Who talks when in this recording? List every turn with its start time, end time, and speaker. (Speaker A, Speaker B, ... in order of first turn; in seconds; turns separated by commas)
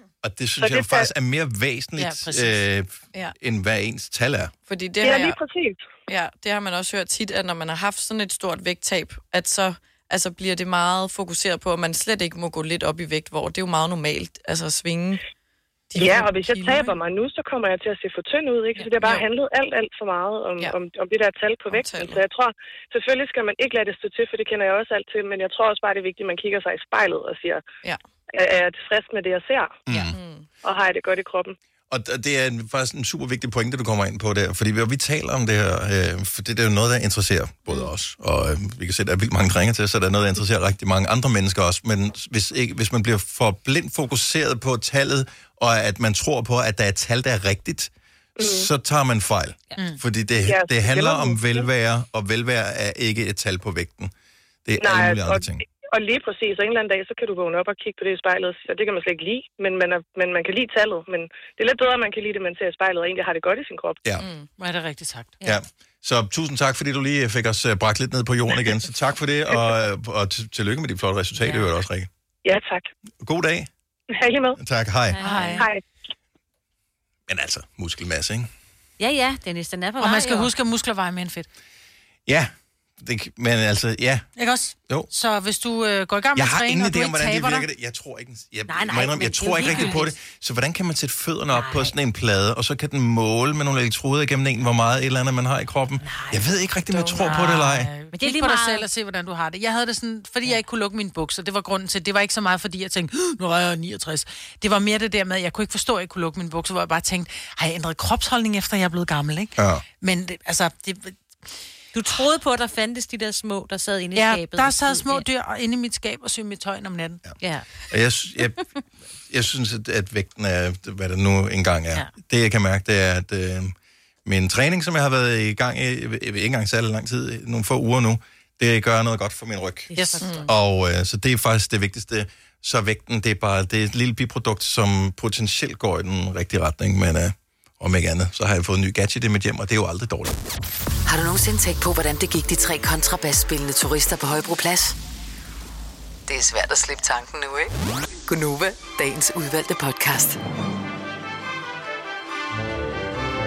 Speaker A: 0.2-4.5, Speaker B: 0.6-1.1, Speaker C: 2.0-2.6, Speaker D: 4.7-5.4, Speaker B: 5.0-5.8, Speaker D: 6.1-15.2, Speaker D: 15.9-17.0, Speaker B: 15.9-27.6, Speaker D: 18.8-19.2, Speaker D: 21.7-22.2, Speaker B: 28.4-29.8, Speaker A: 29.9-30.1, Speaker D: 30.1-30.5, Speaker B: 30.6-31.6, Speaker A: 31.9-54.1, Speaker B: 48.4-48.7, Speaker B: 50.5-51.7, Speaker A: 54.7-55.6, Speaker B: 54.8-64.0, Speaker D: 64.2-64.5, Speaker C: 64.6-65.6, Speaker A: 65.4-72.1, Speaker B: 72.5-72.9, Speaker A: 73.2-73.7, Speaker B: 74.2-74.6, Speaker A: 74.6-75.3, Speaker E: 75.1-75.7, Speaker C: 75.2-75.7, Speaker A: 77.3-78.5, Speaker E: 79.0-80.5, Speaker C: 80.0-81.5, Speaker A: 82.3-84.3, Speaker C: 84.4-87.7, Speaker A: 86.3-97.9, Speaker C: 88.7-90.2, Speaker E: 89.4-90.0, Speaker E: 91.5-91.9, Speaker C: 96.0-96.4, Speaker C: 97.0-111.2, Speaker E: 98.1-98.9, Speaker A: 109.6-109.8, Speaker E: 111.9-115.2, Speaker C: 114.1-117.2, Speaker E: 117.4-117.7, Speaker A: 117.9-118.7, Speaker A: 119.3-123.7, Speaker A: 124.2-140.4, Speaker E: 129.9-130.5, Speaker C: 129.9-130.3, Speaker F: 141.1-145.0, Speaker F: 146.3-147.7, Speaker F: 148.3-150.4